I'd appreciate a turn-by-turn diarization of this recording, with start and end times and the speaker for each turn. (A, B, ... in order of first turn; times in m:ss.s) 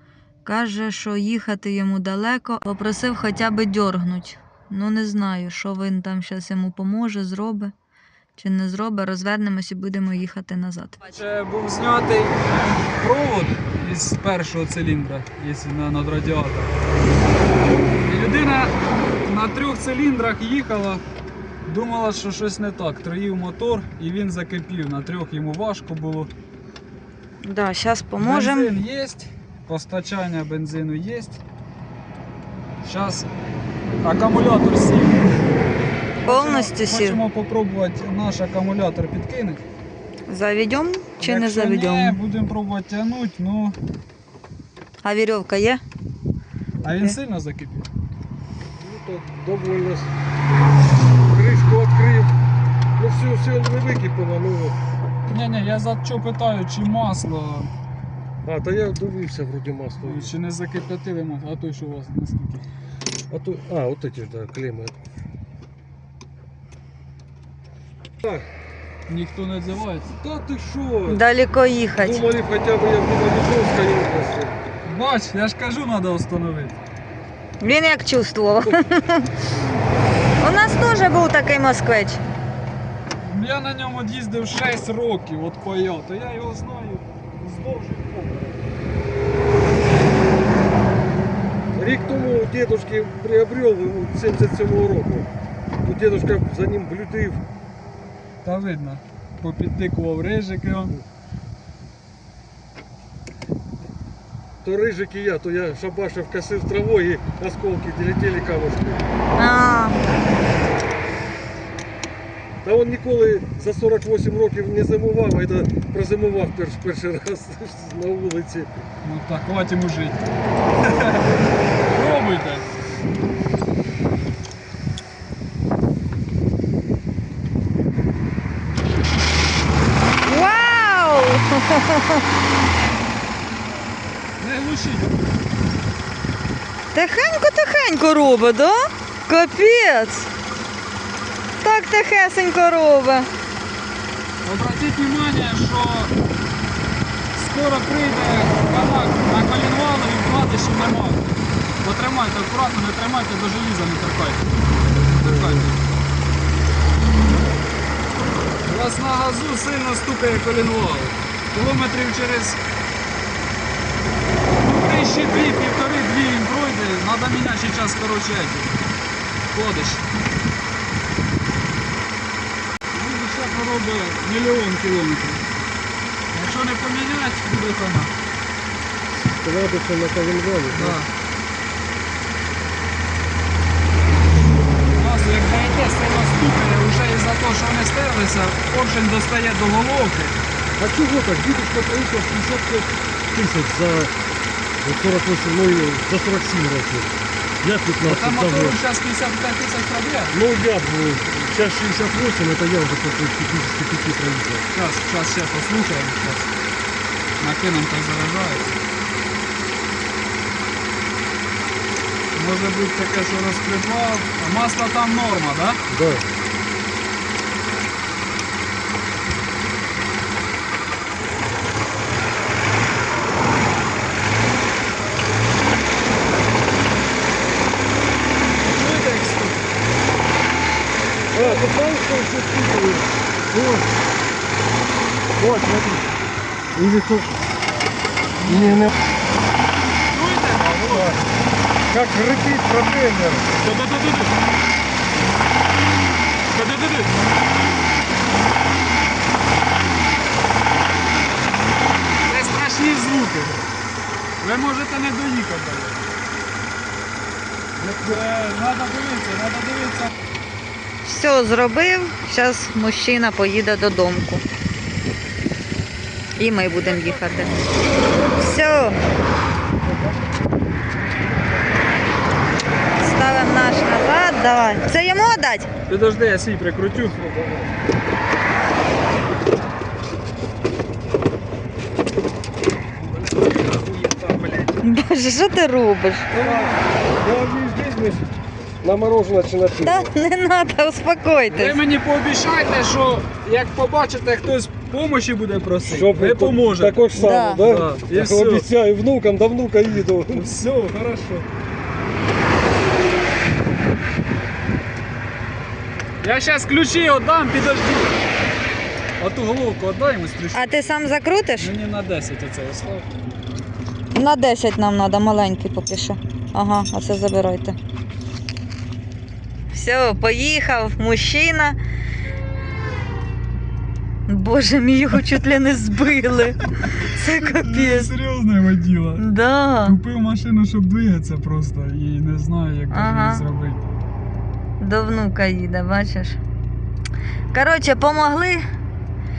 0:00.4-0:07.7 A
0:08.4-0:11.0 A
0:11.0-0:16.8 B
0:18.0-0:21.0 B
0:21.6-0:26.3 B
0:27.4-0:28.7 A
0:28.2-0:31.4 B
0:32.8-0:33.3 B
0:34.0-0:35.3 B
0:36.2-0:39.6 B
0:36.2-0:37.2 A
0:40.3-0:42.2 A
0:41.2-0:43.8 B
0:45.0-0:45.8 A
0:46.8-0:47.9 B
0:48.8-0:50.1 C
0:51.3-0:52.3 C
0:53.0-0:54.8 C
0:55.3-0:57.7 B
0:58.4-1:00.3 C
1:00.0-1:02.6 B
1:03.3-1:05.0 C
1:09.1-1:10.2 B
1:10.2-1:11.2 C
1:11.1-1:12.2 A
1:12.0-1:14.6 C
1:14.8-1:16.8 B
1:17.6-1:19.3 A
1:20.4-1:22.2 A
1:23.2-1:28.6 B
1:31.7-1:35.3 C
1:35.8-1:37.4 C
1:38.4-1:41.0 B
1:44.6-1:49.0 C
1:49.4-1:50.0 A
1:52.6-1:58.7 C
1:59.0-2:02.6 B
2:10.2-2:12.2 A
2:14.4-2:15.2 B
2:16.9-2:20.3 A
2:21.6-2:23.3 A
2:24.4-2:26.1 B
2:27.3-2:34.5 B
2:35.0-2:35.8 B
2:35.2-2:35.7 C
2:38.6-2:42.6 B
2:44.6-2:48.7 B
2:49.5-2:50.0 B
2:52.9-2:55.5 B
2:56.3-2:58.1 B
2:59.3-3:01.0 C
3:00.7-3:01.1 B
3:04.9-3:10.4 B
3:10.8-3:14.1 C
3:14.8-3:18.8 C
3:18.0-3:20.4 B
3:20.3-3:24.7 C
3:24.7-3:26.5 B
3:27.4-3:28.8 B
3:32.3-3:35.8 B
3:35.9-3:36.2 C
3:48.6-3:49.7 B
3:51.3-3:53.9 C
3:51.3-3:51.7 B
3:55.4-3:56.1 C
3:56.7-3:57.4 C
3:58.4-3:58.9 B
3:58.5-3:58.9 C
4:00.1-4:01.2 B
4:00.8-4:01.2 C
4:01.9-4:03.6 C
4:03.6-4:04.3 B
4:06.5-4:07.1 B
4:12.3-4:13.6 B
4:14.4-4:16.1 B
4:17.8-4:18.2 C
4:18.0-4:20.1 B
4:21.0-4:24.4 A
4:26.4-4:27.6 A
4:28.3-4:29.0 A
4:33.0-4:35.7 A
4:35.9-4:37.2 B
4:37.1-4:37.7 C
4:43.0-4:44.8 B
4:44.8-4:46.3 A
4:46.3-4:46.8 B
4:46.3-4:48.2 C
4:48.8-4:50.1 C
4:49.8-4:51.8 A
4:51.5-4:58.7 B
4:55.8-5:00.5 C
4:57.2-4:57.6 A
5:00.3-5:01.5 B
5:06.2-5:08.2 B
5:09.2-5:11.0 B
5:10.5-5:11.7 A
5:11.6-5:13.3 B
5:14.1-5:17.8 A
5:19.7-5:21.8 A
5:24.3-5:28.1 A
5:26.8-5:29.3 B
5:29.2-5:30.0 A
5:29.8-5:33.9 B
5:32.9-5:33.4 A
5:34.8-5:36.4 A
5:37.5-5:38.6 A